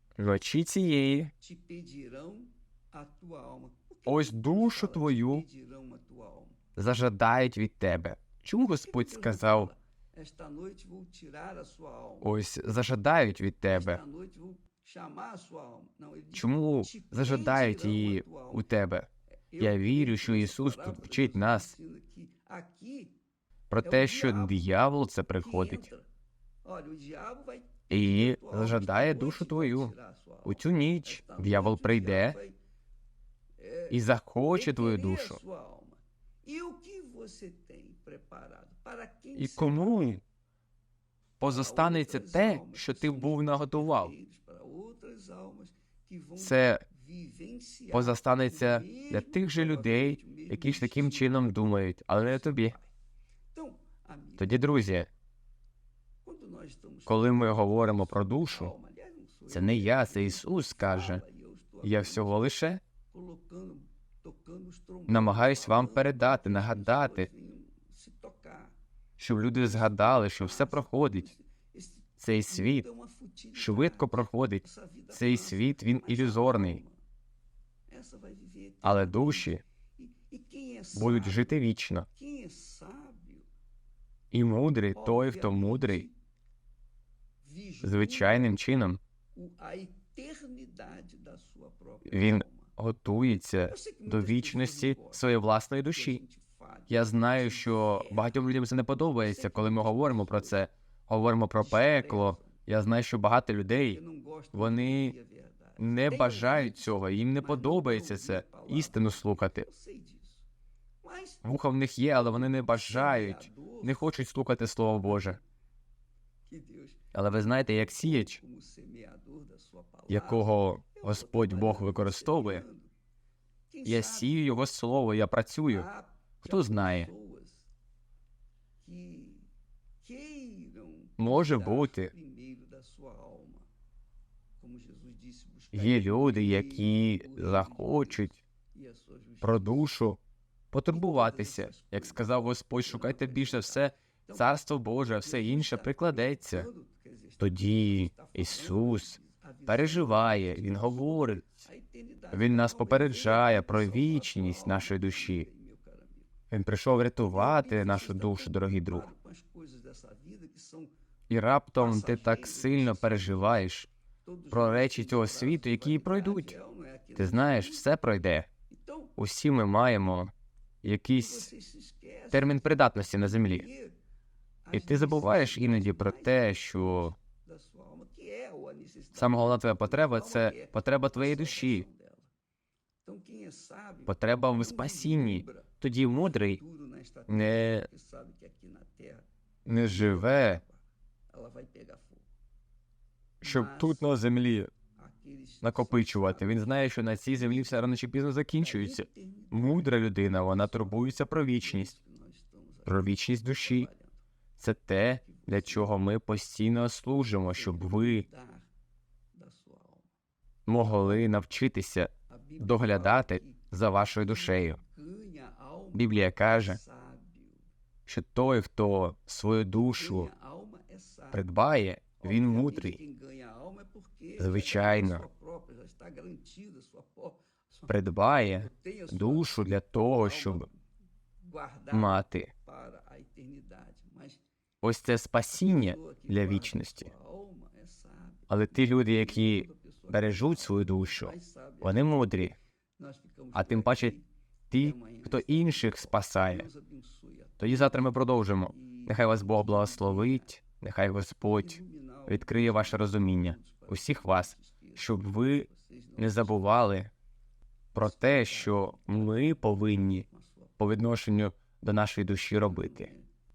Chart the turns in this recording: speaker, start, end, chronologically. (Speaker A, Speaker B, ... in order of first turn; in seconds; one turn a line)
Speaker A: 0.2-1.3
Speaker B: 1.4-6.6
Speaker A: 4.0-5.4
Speaker A: 6.8-9.7
Speaker B: 8.7-12.3
Speaker A: 12.2-14.0
Speaker B: 13.7-18.7
Speaker A: 16.3-19.1
Speaker B: 19.5-23.1
Speaker A: 19.6-21.7
Speaker A: 23.7-25.9
Speaker B: 23.8-24.6
Speaker B: 25.4-26.1
Speaker B: 26.6-32.6
Speaker A: 27.9-29.9
Speaker A: 30.4-32.4
Speaker B: 33.6-40.2
Speaker A: 33.9-35.4
Speaker A: 39.4-40.2
Speaker A: 41.4-44.1
Speaker B: 41.5-51.5
Speaker A: 46.4-46.8
Speaker A: 47.9-52.8
Speaker B: 52.2-52.9
Speaker B: 53.5-54.6
Speaker A: 54.4-55.1
Speaker B: 56.2-62.4
Speaker A: 57.1-58.7
Speaker A: 59.5-61.2
Speaker A: 61.8-62.8
Speaker B: 63.1-68.7
Speaker A: 65.1-67.3
Speaker A: 69.2-71.3
Speaker B: 69.6-77.0
Speaker A: 72.2-72.9
Speaker A: 73.5-76.8
Speaker B: 77.9-81.5
Speaker A: 78.8-79.6
Speaker A: 80.9-82.0
Speaker B: 82.1-83.5
Speaker A: 84.3-86.1
Speaker B: 84.9-86.1
Speaker B: 87.4-88.5
Speaker A: 87.8-89.0
Speaker B: 89.3-92.7
Speaker A: 92.1-96.2
Speaker B: 93.6-95.3
Speaker B: 95.9-98.3
Speaker A: 96.9-104.0
Speaker B: 98.9-100.6
Speaker B: 101.6-102.6
Speaker B: 103.9-110.4
Speaker A: 104.5-105.1
Speaker A: 105.8-109.7
Speaker B: 111.0-111.5
Speaker A: 111.4-115.4
Speaker B: 112.3-114.0
Speaker B: 115.0-115.4
Speaker B: 116.5-122.9
Speaker A: 117.1-118.4
Speaker A: 120.1-122.6
Speaker B: 123.7-124.3
Speaker A: 123.8-125.9
Speaker B: 125.7-127.7
Speaker A: 126.4-127.1
Speaker B: 128.8-129.5
Speaker B: 130.0-133.7
Speaker A: 131.2-132.1
Speaker B: 134.6-139.9
Speaker A: 135.7-138.3
Speaker A: 139.4-140.2
Speaker A: 140.7-146.7
Speaker B: 140.9-144.5
Speaker B: 145.1-156.3
Speaker A: 147.4-151.5
Speaker A: 152.3-155.5
Speaker A: 156.5-159.1
Speaker B: 157.2-160.9
Speaker A: 161.3-163.9
Speaker B: 161.8-163.7
Speaker B: 164.2-167.9
Speaker A: 164.5-166.6
Speaker A: 167.2-168.5
Speaker B: 168.7-169.1
Speaker A: 169.2-170.3
Speaker A: 170.8-171.5
Speaker B: 171.2-174.0
Speaker A: 172.3-173.7
Speaker B: 174.6-182.3
Speaker A: 174.7-177.1
Speaker A: 179.2-181.8
Speaker B: 183.0-185.8
Speaker A: 184.1-186.6
Speaker B: 186.3-189.2
Speaker A: 187.3-187.9
Speaker A: 189.7-190.6
Speaker B: 189.9-192.2
Speaker B: 193.4-194.1
Speaker A: 193.4-194.7
Speaker B: 194.9-196.5
Speaker A: 195.6-201.9
Speaker B: 197.3-197.7
Speaker B: 198.6-204.2
Speaker A: 202.9-203.9
Speaker A: 204.6-208.2
Speaker B: 205.2-205.9
Speaker B: 207.5-208.7
Speaker B: 209.3-210.1
Speaker A: 210.7-214.8
Speaker B: 212.3-217.6
Speaker A: 215.9-216.8
Speaker A: 218.1-220.3
Speaker B: 219.8-221.4
Speaker A: 221.3-223.0
Speaker B: 222.2-227.9
Speaker A: 224.4-225.2
Speaker A: 227.9-230.7
Speaker B: 228.6-229.5
Speaker B: 230.2-230.8
Speaker B: 231.4-234.4
Speaker A: 231.9-232.5
Speaker A: 234.8-237.1
Speaker B: 235.6-242.2
Speaker A: 238.5-242.6
Speaker B: 243.0-248.1
Speaker A: 243.5-244.2
Speaker A: 244.7-246.7
Speaker A: 247.6-257.1
Speaker B: 248.7-250.6
Speaker B: 251.4-256.7
Speaker A: 257.9-260.2
Speaker B: 257.9-260.8
Speaker A: 260.8-263.1
Speaker B: 262.6-263.2